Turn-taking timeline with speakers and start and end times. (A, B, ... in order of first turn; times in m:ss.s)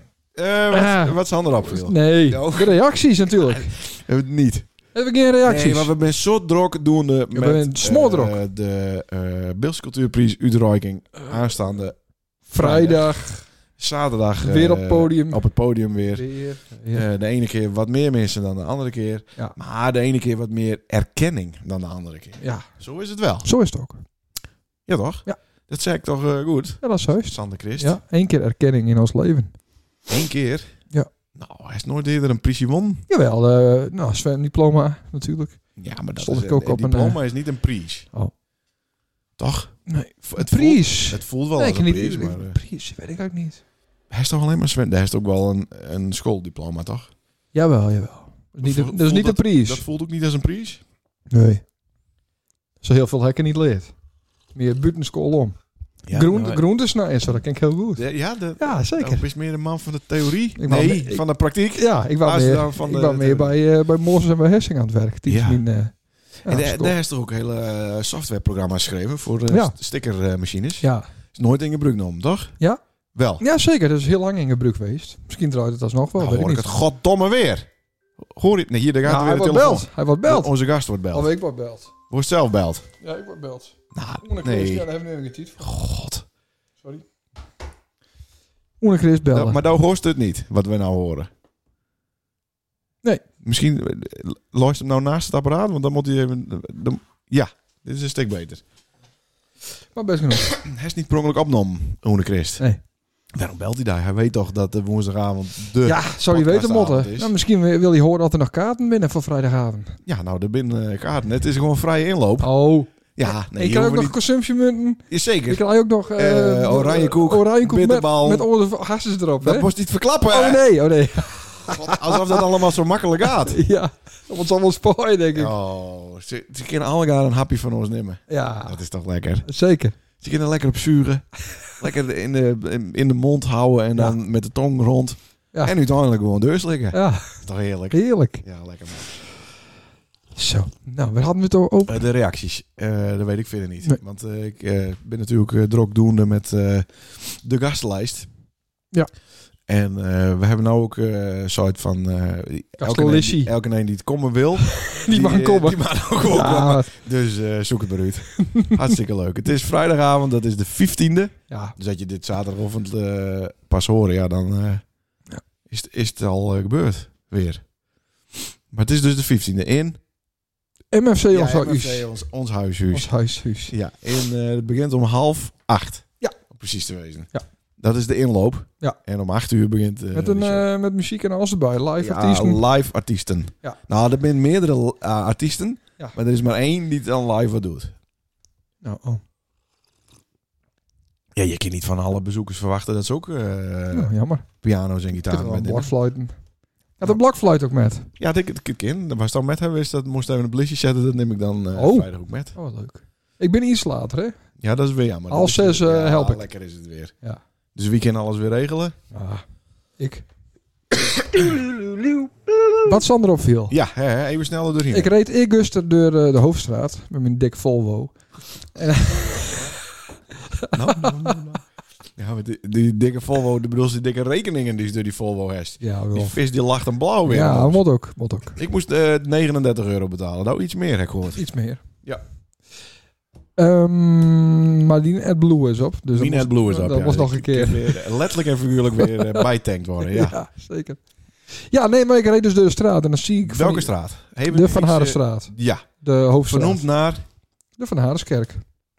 0:00.3-0:02.8 A
0:00.7-0:03.8 B
0:03.3-0:04.7 A
0:04.9-0:05.9 B
0:05.4-0:12.0 A
0:07.3-0:08.4 B
0:12.5-0:16.3 A
0:12.5-0:13.4 B
0:14.4-0:15.4 B
0:16.1-0:17.0 B
0:16.9-0:23.5 A
0:22.4-0:22.7 B
0:23.4-0:24.0 B
0:24.8-0:28.0 A
0:26.8-0:29.5 B
0:30.1-0:30.7 A
0:31.3-0:33.0 A
0:33.1-0:35.6 B
0:35.8-0:38.1 A
0:36.2-0:37.2 B
0:39.4-0:42.6 A
0:39.9-0:43.6 B
0:44.1-0:47.1 A
0:47.5-0:49.8 B
0:48.6-0:50.8 A
0:51.3-0:51.6 B
0:52.8-0:53.9 B
0:54.5-0:55.6 B
0:56.0-0:56.6 A
0:56.1-0:58.0 B
0:57.9-1:03.5 A
0:58.6-0:59.3 B
1:00.6-1:01.2 B
1:01.7-1:06.9 B
1:05.3-1:05.6 A
1:06.4-1:12.5 A
1:09.5-1:09.7 B
1:10.8-1:11.1 B
1:13.1-1:13.4 A
1:13.4-1:16.8 B
1:16.2-1:17.7 A
1:18.2-1:21.3 A
1:19.0-1:20.5 B
1:21.1-1:21.9 B
1:22.1-1:22.9 A
1:23.0-1:25.8 B
1:23.9-1:24.9 A
1:25.6-1:26.2 A
1:28.8-1:29.6 B
1:29.3-1:31.3 A
1:33.4-1:38.6 A
1:39.9-1:40.6 B
1:40.5-1:42.6 A
1:43.3-1:47.3 A
1:45.8-1:50.0 B
1:50.0-1:52.5 A
1:52.4-1:59.7 B
1:53.1-1:54.2 A
1:55.1-1:58.5 A
1:59.4-2:00.7 A
2:00.3-2:02.4 B
2:01.6-2:03.6 A
2:03.5-2:05.5 B
2:05.3-2:09.5 A
2:08.3-2:08.8 B
2:09.4-2:10.0 B
2:10.2-2:19.2 A
2:16.9-2:18.4 B
2:20.4-2:22.0 B
2:21.9-2:28.3 A
2:29.7-2:44.8 A
2:32.8-2:33.5 B
2:34.8-2:36.9 B
2:45.7-2:47.6 A
2:48.7-2:50.0 A
2:50.9-2:52.1 B
2:51.3-2:53.1 A
2:52.9-2:53.7 B
2:53.7-3:00.6 A
3:00.1-3:02.6 B
3:02.0-3:07.9 A
3:08.8-3:09.2 B
3:11.3-3:15.9 A
3:13.9-3:14.5 B
3:15.2-3:16.4 B
3:16.9-3:18.1 B
3:18.2-3:22.5 A
3:21.8-3:24.4 B
3:24.6-3:27.1 A
3:25.3-3:26.4 B
3:27.7-3:29.0 A
3:29.1-3:29.4 B
3:30.0-3:30.2 B
3:31.3-3:31.6 A
3:32.8-3:33.8 B
3:33.7-3:35.1 A
3:34.9-3:38.2 B
3:38.7-3:39.8 B
3:40.6-3:41.4 B
3:40.7-3:41.6 A
3:42.2-3:47.8 A
3:45.8-3:46.4 B
3:47.2-3:48.6 B
3:48.6-3:51.5 A
3:51.4-3:51.8 B
3:53.6-3:58.1 B
3:56.1-4:00.4 A
3:59.0-3:59.4 B
4:00.0-4:01.0 B
4:01.5-4:03.9 B
4:03.4-4:05.8 A
4:04.5-4:06.8 B
4:06.5-4:07.2 A
4:07.8-4:08.6 B